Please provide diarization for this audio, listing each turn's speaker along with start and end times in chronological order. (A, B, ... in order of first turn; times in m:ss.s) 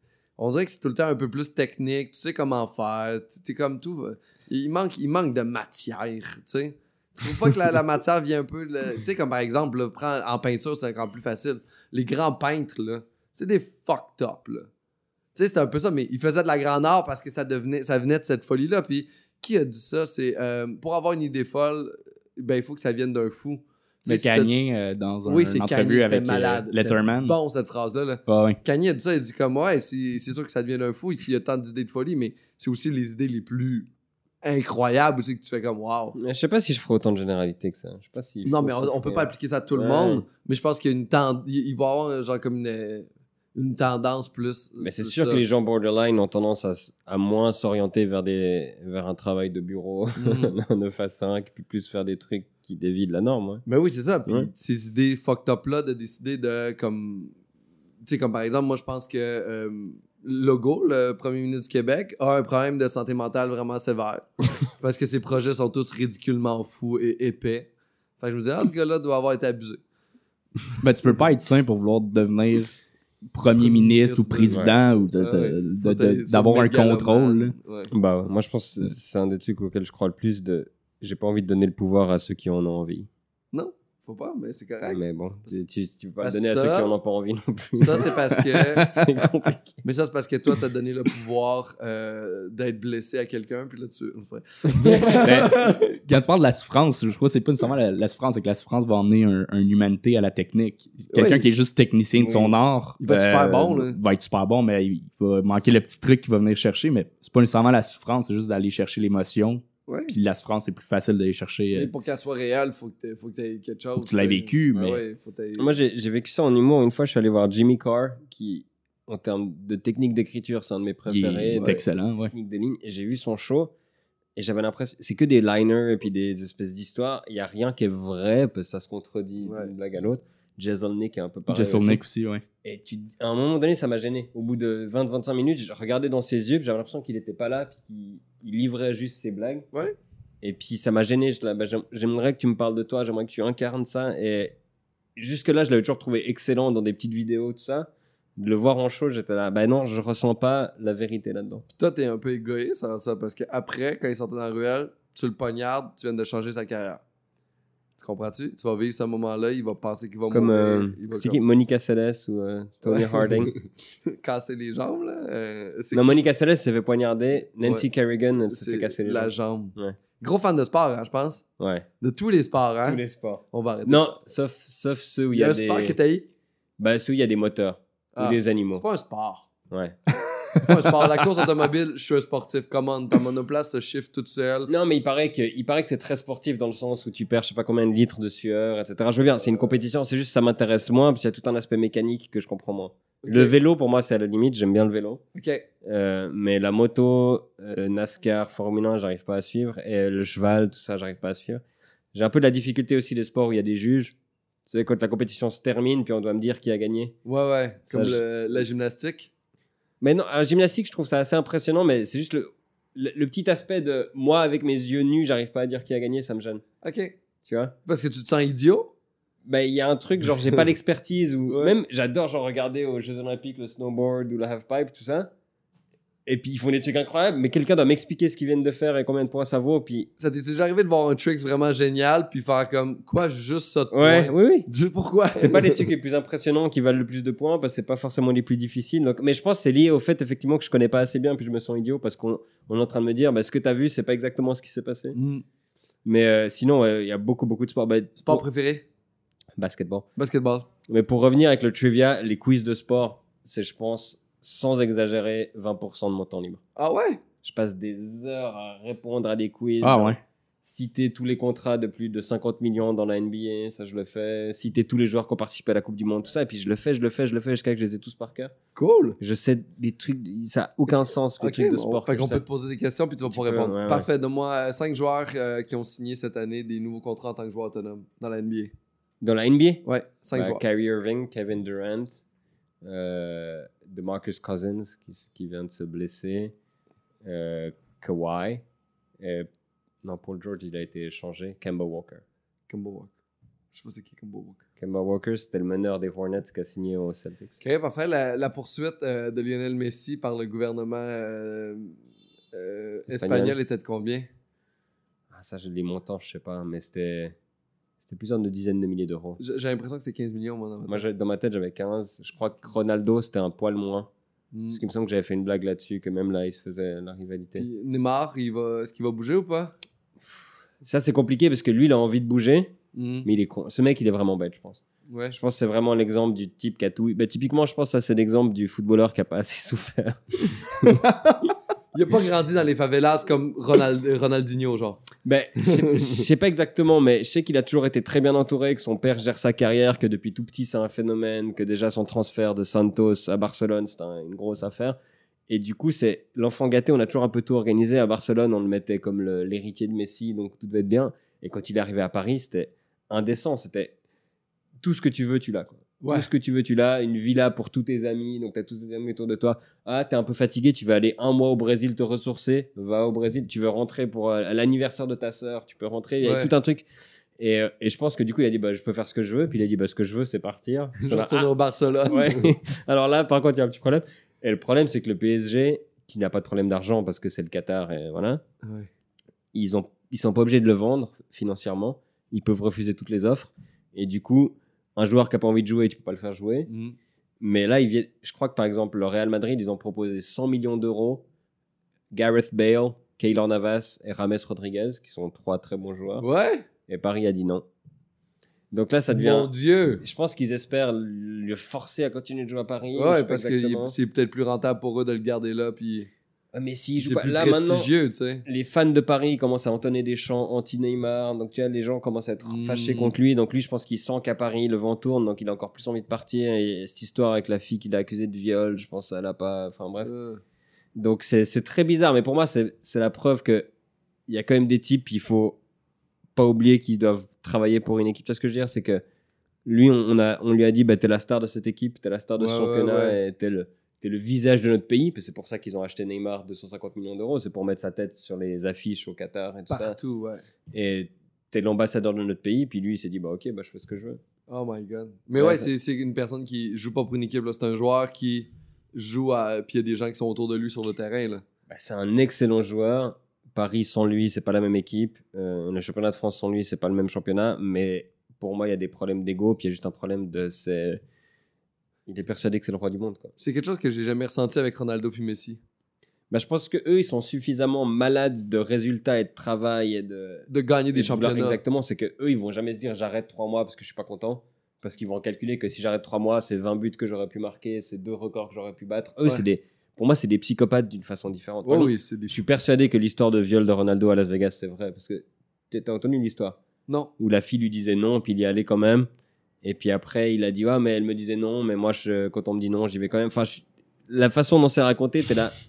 0:00.4-0:14.7 A
0:15.4-0:24.5 A
0:24.1-0:27.4 B
0:25.3-0:33.9 A
0:28.3-0:28.6 B
0:34.4-0:36.2 A
0:36.2-0:40.2 C
0:38.4-0:45.4 A
0:44.8-0:53.6 C
0:50.2-0:50.5 A
0:53.7-0:57.4 A
0:58.0-1:09.8 A
1:10.8-1:12.8 B
1:13.3-1:17.6 B
1:13.6-1:17.9 A
1:14.5-1:14.8 C
1:17.9-1:23.1 C
1:23.5-1:25.6 A
1:24.9-1:29.8 C
1:26.2-1:26.9 A
1:27.8-1:28.9 A
1:29.8-1:35.8 A
1:34.8-1:35.3 C
1:35.1-1:51.9 B
1:41.1-1:41.5 A
1:42.2-1:42.5 C
1:43.0-1:44.0 A
1:49.9-1:50.2 A
1:51.7-1:55.7 A
1:54.0-1:55.0 B
1:55.6-2:03.7 C
2:01.1-2:02.3 B
2:01.6-2:01.8 A
2:04.4-2:12.0 C
2:09.4-2:09.7 A
2:11.5-2:12.4 B
2:12.6-2:19.7 C
2:20.4-2:24.6 C
2:25.2-2:31.6 C
2:31.8-2:37.0 A
2:38.0-2:41.4 A
2:40.3-2:43.5 C
2:42.9-2:46.2 A
2:45.9-2:50.0 C
2:47.6-2:47.9 A
2:48.5-2:51.4 A
2:51.6-2:51.9 C
2:52.0-2:54.1 A
2:52.8-2:56.0 C
2:55.3-2:56.3 A
2:56.8-2:58.8 C
2:58.2-2:59.5 A
2:59.7-3:00.0 C
3:00.5-3:01.4 C
3:00.6-3:04.7 A
3:04.7-3:15.2 C
3:09.4-3:09.7 A
3:13.2-3:13.6 A
3:15.4-3:15.7 A
3:15.8-3:21.6 C
3:22.1-3:27.2 C
3:27.2-3:29.3 A
3:27.9-3:28.2 C
3:30.0-3:36.6 C
3:36.8-3:37.2 A
3:37.4-3:37.8 C
3:37.9-3:38.9 A
3:39.5-3:45.3 C
3:41.5-3:41.8 A
3:46.3-3:50.1 C
3:50.2-3:55.9 A
3:53.9-3:54.7 C
3:55.4-4:05.2 C
4:05.1-4:05.4 A
4:06.0-4:08.4 C
4:08.2-4:08.9 A
4:09.6-4:10.0 C
4:10.2-4:10.7 A
4:10.9-4:16.6 C
4:16.8-4:17.2 A
4:17.4-4:28.5 C
4:19.8-4:20.2 B
4:28.8-4:29.2 A
4:29.2-4:32.4 C
4:31.4-4:38.7 A
4:33.3-4:34.1 C
4:39.2-4:42.2 C
4:39.8-4:40.6 A
4:42.8-4:46.5 C
4:47.2-4:48.6 C
4:49.2-4:49.5 C
4:50.0-4:52.2 C
4:52.7-4:53.2 A
4:53.7-4:54.6 A
4:54.8-4:57.6 C
4:57.6-5:02.0 A
5:02.5-5:04.3 A
5:03.1-5:03.6 C
5:05.3-5:07.4 C
5:08.0-5:09.4 C
5:09.4-5:11.0 A
5:10.9-5:14.1 C
5:14.5-5:14.8 A
5:14.7-5:17.7 C
5:17.6-5:19.8 A
5:20.2-5:22.7 C
5:22.9-5:23.3 A
5:23.2-5:31.0 C
5:25.1-5:25.4 A
5:30.9-5:31.4 B
5:31.9-5:35.1 A
5:35.2-5:45.0 C
5:35.7-5:36.2 A
5:45.5-5:54.0 C
5:54.8-6:06.9 C
5:56.0-5:56.3 A
6:06.2-6:06.5 A
6:07.4-6:11.5 C
6:11.0-6:12.5 A
6:12.1-6:18.4 C
6:18.6-6:18.9 A
6:19.5-6:26.7 C
6:26.7-6:27.0 A
6:27.4-6:31.2 C
6:32.1-6:36.3 C
6:36.2-6:36.6 A
6:36.9-6:37.6 C
6:38.7-6:44.0 C
6:39.1-6:40.0 A
6:43.0-6:46.1 A
6:46.5-6:47.9 C
6:47.0-6:48.4 A
6:48.4-7:00.1 C
6:52.4-6:53.2 A
7:00.0-7:00.4 A
7:01.0-7:03.7 C
7:04.3-7:05.6 C
7:06.4-7:09.0 C
7:09.6-7:20.0 C
7:12.4-7:13.2 A
7:19.7-7:20.4 A
7:20.7-7:24.2 C
7:24.5-7:31.4 A
7:25.4-7:25.7 C
7:31.7-7:41.0 C
7:42.1-7:43.3 C
7:43.4-7:45.6 A
7:46.3-8:06.6 C
7:50.5-7:51.6 A
8:01.6-8:02.4 A
8:06.9-8:07.1 A
8:07.2-8:09.1 C
8:09.6-8:15.6 C